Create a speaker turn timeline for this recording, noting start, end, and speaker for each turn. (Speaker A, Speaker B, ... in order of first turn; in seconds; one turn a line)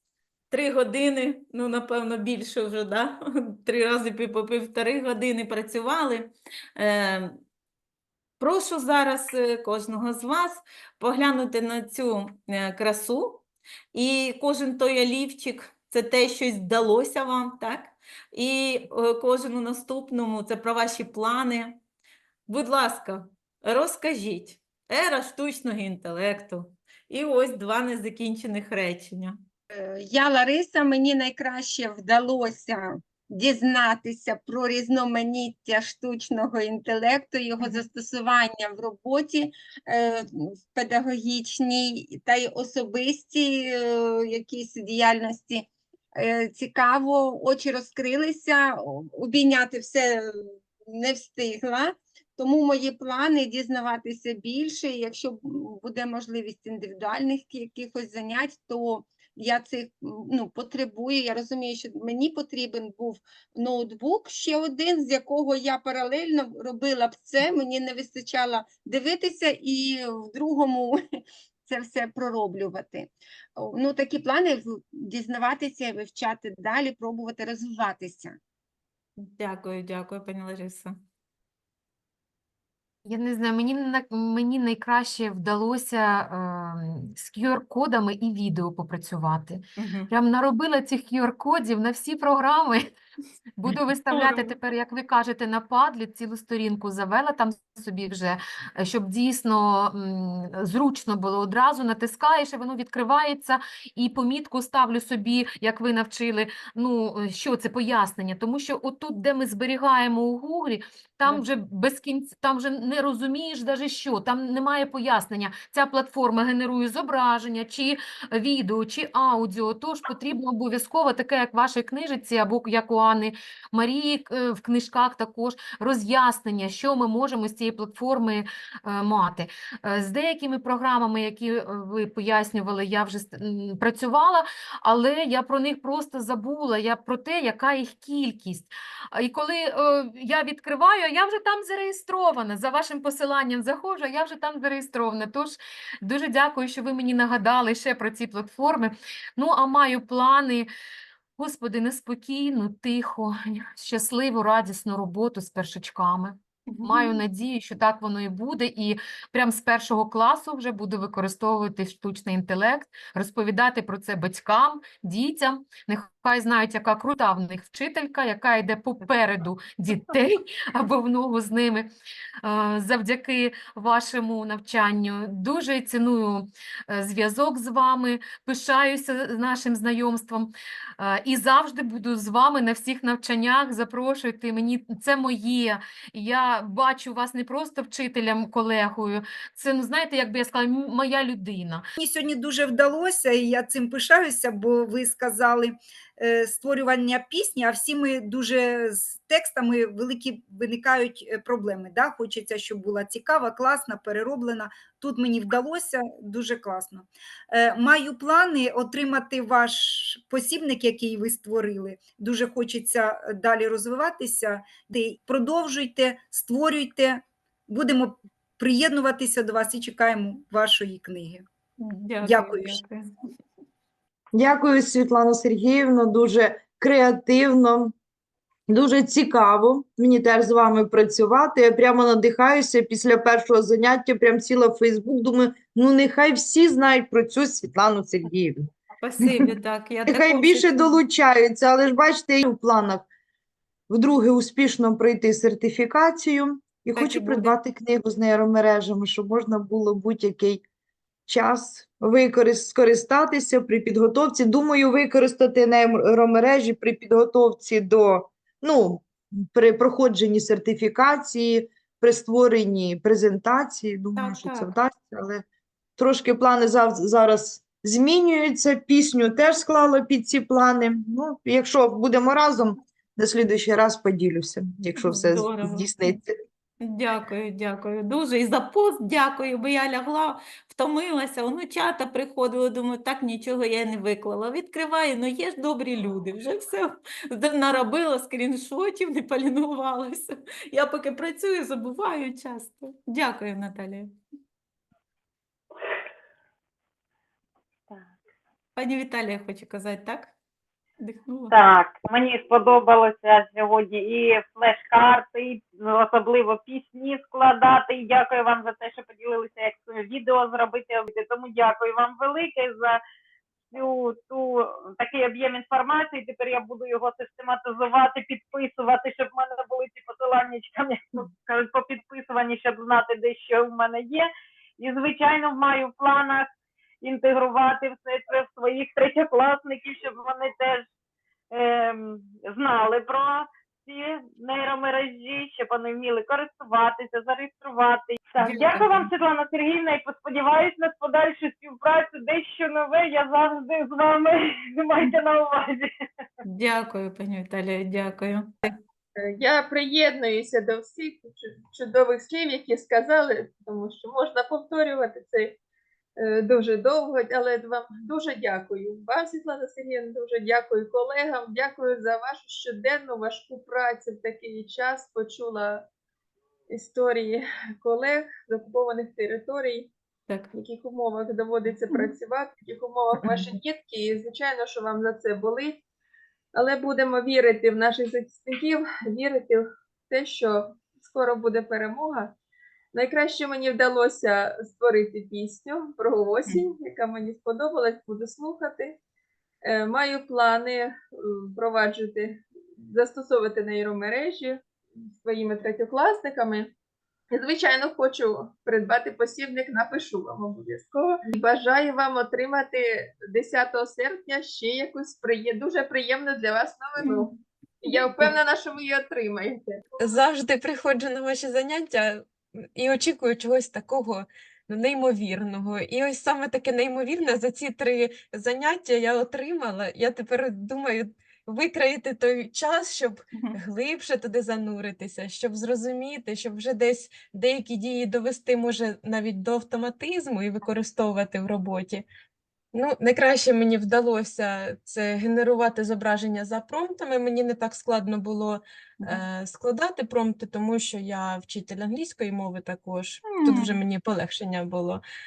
Speaker A: 0.5-7.4
Speaker A: 8.4-21.8
Speaker A: 22.5-29.4
Speaker B: 29.7-50.3
Speaker B: 50.9-71.0
Speaker B: 71.7-78.4
Speaker A: 79.2-81.0
Speaker C: 83.0-92.9
Speaker A: 89.8-90.1
Speaker C: 93.6-150.7
Speaker A: 93.7-94.6
Speaker C: 151.4-171.9
Speaker A: 156.7-157.2
Speaker C: 172.4-191.8
Speaker D: 192.0-221.4
Speaker A: 221.8-223.1
Speaker D: 222.2-222.8
Speaker E: 224.3-227.9
Speaker E: 228.7-238.7
Speaker A: 239.0-241.0
Speaker E: 240.1-243.1
Speaker E: 243.9-250.6
Speaker A: 246.9-247.6
Speaker E: 251.3-265.4
Speaker A: 264.2-264.8
Speaker E: 266.0-276.3
Speaker A: 275.0-276.2
Speaker A: 276.8-294.1
Speaker A: 298.8-300.3
Speaker A: 301.0-301.6
Speaker F: 301.5-313.0
Speaker F: 313.7-324.3
Speaker F: 324.8-326.5
Speaker F: 327.0-330.9
Speaker F: 331.5-345.9
Speaker A: 338.4-339.1
Speaker A: 346.4-348.7
Speaker G: 349.2-355.6
Speaker G: 356.2-365.8
Speaker G: 366.7-369.9
Speaker G: 370.5-375.8
Speaker A: 373.2-373.5
Speaker G: 376.5-382.3
Speaker G: 382.9-389.0
Speaker G: 389.6-394.6
Speaker G: 395.1-396.7
Speaker G: 397.3-407.3
Speaker G: 407.8-409.8
Speaker H: 410.0-432.1
Speaker H: 432.7-445.0
Speaker A: 443.3-443.8